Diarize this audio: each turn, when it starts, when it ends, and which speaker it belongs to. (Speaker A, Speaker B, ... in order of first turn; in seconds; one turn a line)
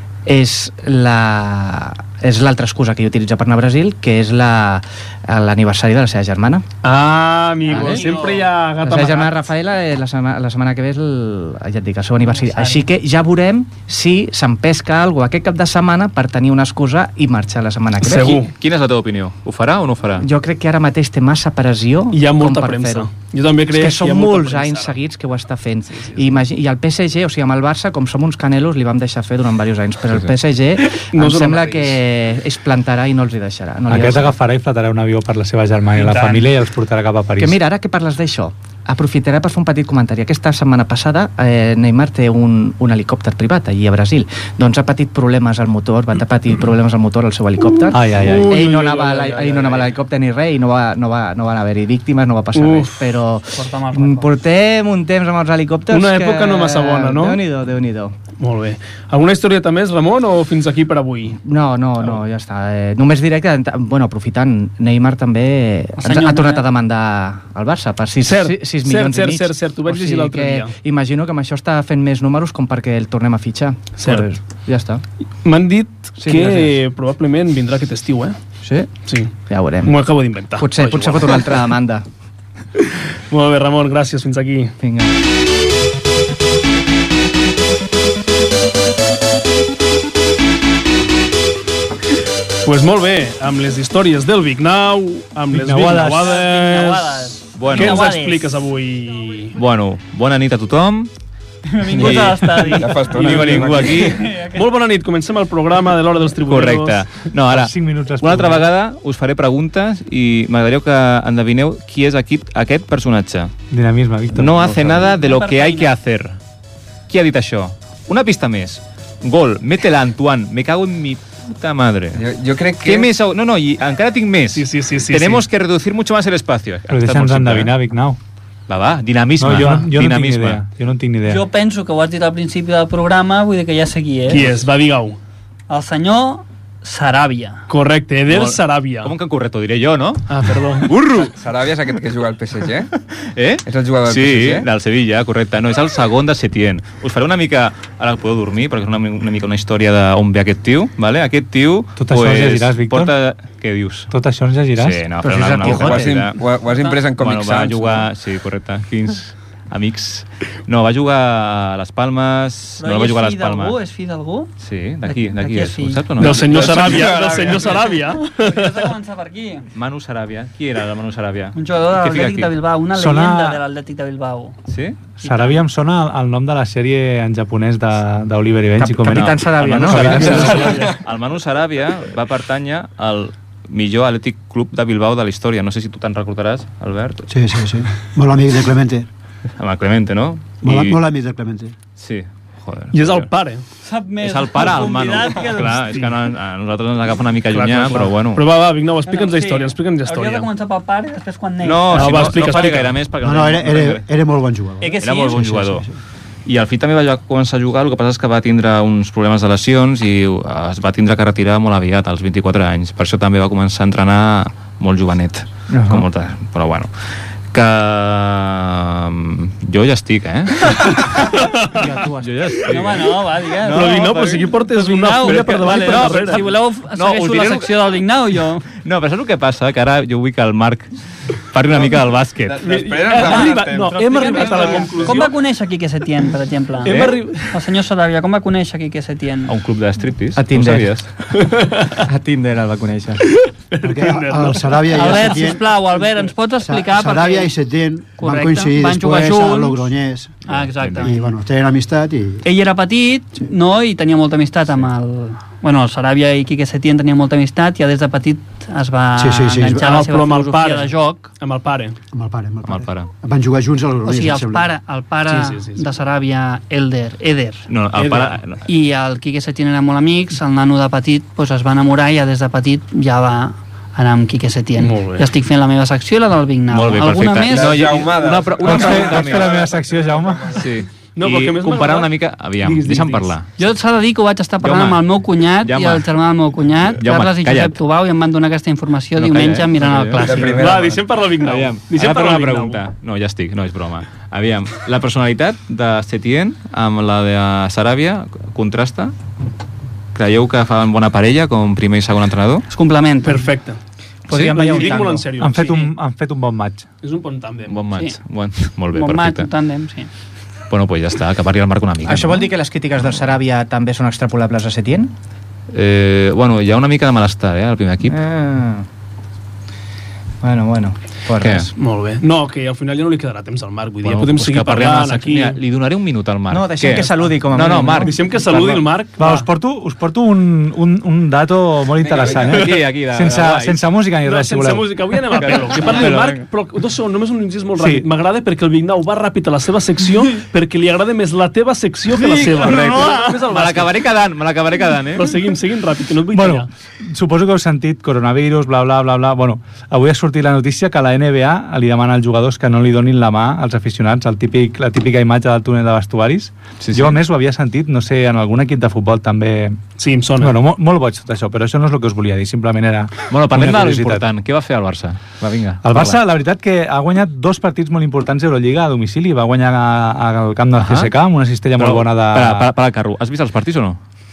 Speaker A: 0.2-6.7
Speaker B: 6.8-9.3
Speaker C: 7.7-8.5
Speaker A: 7.7-8.0
Speaker A: 8.8-18.4
Speaker C: 12.3-12.8
Speaker B: 18.0-18.5
Speaker D: 18.5-20.3
Speaker A: 20.2-23.1
Speaker B: 22.1-25.0
Speaker A: 23.7-34.3
Speaker B: 25.9-26.3
Speaker B: 31.0-32.0
Speaker E: 33.9-37.6
Speaker C: 36.0-36.4
Speaker A: 37.4-58.1
Speaker E: 47.9-48.5
Speaker B: 48.0-50.0
Speaker B: 52.5-53.1
Speaker C: 53.5-54.3
Speaker B: 55.9-57.4
Speaker B: 58.4-61.4
Speaker A: 61.4-75.0
Speaker C: 66.0-66.6
Speaker B: 68.2-70.7
Speaker B: 74.0-74.3
Speaker B: 75.4-78.4
Speaker A: 76.2-76.8
Speaker A: 78.6-80.0
Speaker B: 79.0-79.3
Speaker B: 79.8-81.5
Speaker A: 80.6-82.0
Speaker B: 83.3-84.7
Speaker A: 84.8-85.1
Speaker B: 92.6-99.5
Speaker E: 95.5-96.3
Speaker C: 96.1-98.6
Speaker D: 97.6-98.1
Speaker D: 99.5-101.1
Speaker C: 101.7-104.7
Speaker F: 101.9-104.2
Speaker B: 102.6-107.0
Speaker D: 103.2-104.1
Speaker D: 106.5-113.5
Speaker E: 107.5-108.7
Speaker E: 113.7-114.8
Speaker D: 114.3-116.4
Speaker C: 115.0-115.9
Speaker D: 117.1-122.2
Speaker F: 122.1-123.1
Speaker D: 122.8-127.7
Speaker B: 124.5-125.4
Speaker E: 126.9-128.2
Speaker D: 128.7-130.6
Speaker E: 129.4-131.4
Speaker C: 129.6-129.8
Speaker C: 131.2-134.5
Speaker B: 134.3-135.2
Speaker C: 135.7-137.6
Speaker B: 137.7-139.1
Speaker D: 138.3-141.3
Speaker B: 140.3-140.9
Speaker F: 141.1-142.9
Speaker D: 143.1-154.1
Speaker F: 143.6-144.7
Speaker E: 152.0-153.1
Speaker E: 154.1-155.1
Speaker D: 154.8-156.4
Speaker A: 155.2-156.2
Speaker F: 155.6-158.1
Speaker C: 156.7-157.0
Speaker D: 157.2-163.8
Speaker C: 162.8-164.5
Speaker D: 164.6-167.2
Speaker C: 165.1-166.1
Speaker B: 166.2-168.9
Speaker F: 166.2-168.0
Speaker C: 168.2-169.7
Speaker D: 169.7-172.5
Speaker C: 171.6-174.6
Speaker E: 172.9-173.6
Speaker D: 174.7-175.0
Speaker C: 175.2-175.6
Speaker E: 175.2-180.8
Speaker A: 178.8-180.9
Speaker D: 179.1-187.3
Speaker G: 187.3-189.1
Speaker D: 189.6-191.0
Speaker G: 190.6-191.7
Speaker D: 192.0-193.3
Speaker B: 192.9-193.6
Speaker C: 193.8-196.1
Speaker D: 194.2-198.4
Speaker B: 197.5-200.5
Speaker C: 199.1-202.7
Speaker D: 201.6-204.1
Speaker B: 201.9-202.9
Speaker G: 203.2-205.9
Speaker C: 204.8-205.4
Speaker D: 205.0-205.9
Speaker D: 206.4-216.9
Speaker A: 215.8-216.0
Speaker D: 217.5-221.4
Speaker B: 221.3-221.8
Speaker A: 221.8-222.6
Speaker D: 222.1-224.5
Speaker C: 222.6-228.7
Speaker B: 223.7-226.4
Speaker D: 225.2-227.9
Speaker D: 228.8-230.9
Speaker D: 231.5-232.6
Speaker F: 231.7-235.3
Speaker B: 232.6-235.4
Speaker C: 233.1-239.6
Speaker B: 236.8-237.6
Speaker D: 239.4-241.1
Speaker A: 240.3-241.0
Speaker B: 241.3-242.1
Speaker A: 242.1-243.2
Speaker B: 243.4-246.3
Speaker G: 243.8-245.7
Speaker C: 244.9-247.6
Speaker G: 246.6-250.4
Speaker C: 248.2-249.9
Speaker D: 250.5-251.1
Speaker C: 250.5-251.4
Speaker G: 251.0-252.4
Speaker C: 252.4-261.3
Speaker G: 259.2-259.9
Speaker B: 259.8-262.0
Speaker G: 262.1-264.7
Speaker D: 262.6-263.1
Speaker C: 264.0-267.7
Speaker B: 265.2-265.9
Speaker D: 267.7-268.6
Speaker B: 267.9-268.4
Speaker C: 268.6-277.8
Speaker B: 274.8-275.3
Speaker D: 276.7-279.6
Speaker F: 277.4-280.7
Speaker E: 278.6-280.6
Speaker D: 280.5-283.5
Speaker B: 281.1-283.3
Speaker C: 283.6-290.7
Speaker D: 284.6-286.1
Speaker D: 286.9-287.8
Speaker D: 289.1-290.3
Speaker F: 290.2-291.0
Speaker B: 290.3-292.8
Speaker D: 291.4-299.1
Speaker D: 300.1-302.6
Speaker C: 302.7-303.4
Speaker B: 303.2-303.8
Speaker A: 304.3-305.3
Speaker D: 304.3-304.9
Speaker B: 304.4-305.9
Speaker E: 305.4-306.9
Speaker B: 307.0-307.8
Speaker D: 307.7-309.5
Speaker C: 307.9-308.2
Speaker C: 308.9-310.1
Speaker D: 310.7-312.5
Speaker A: 312.0-315.1
Speaker D: 315.7-318.2
Speaker A: 318.0-318.9
Speaker A: 320.4-321.7
Speaker D: 321.4-321.7
Speaker B: 321.7-325.6
Speaker D: 324.0-328.1
Speaker A: 326.5-328.8
Speaker B: 328.0-329.5
Speaker E: 329.2-335.1
Speaker D: 332.0-333.8
Speaker F: 332.2-332.5
Speaker B: 334.2-343.9
Speaker D: 335.4-336.4
Speaker E: 337.8-338.1
Speaker D: 342.1-345.4
Speaker B: 345.1-346.7
Speaker E: 346.3-359.8
Speaker D: 356.8-357.2
Speaker B: 360.0-360.6
Speaker E: 360.4-364.2
Speaker D: 363.3-366.2
Speaker E: 365.8-372.7
Speaker D: 370.8-371.1
Speaker D: 371.8-374.0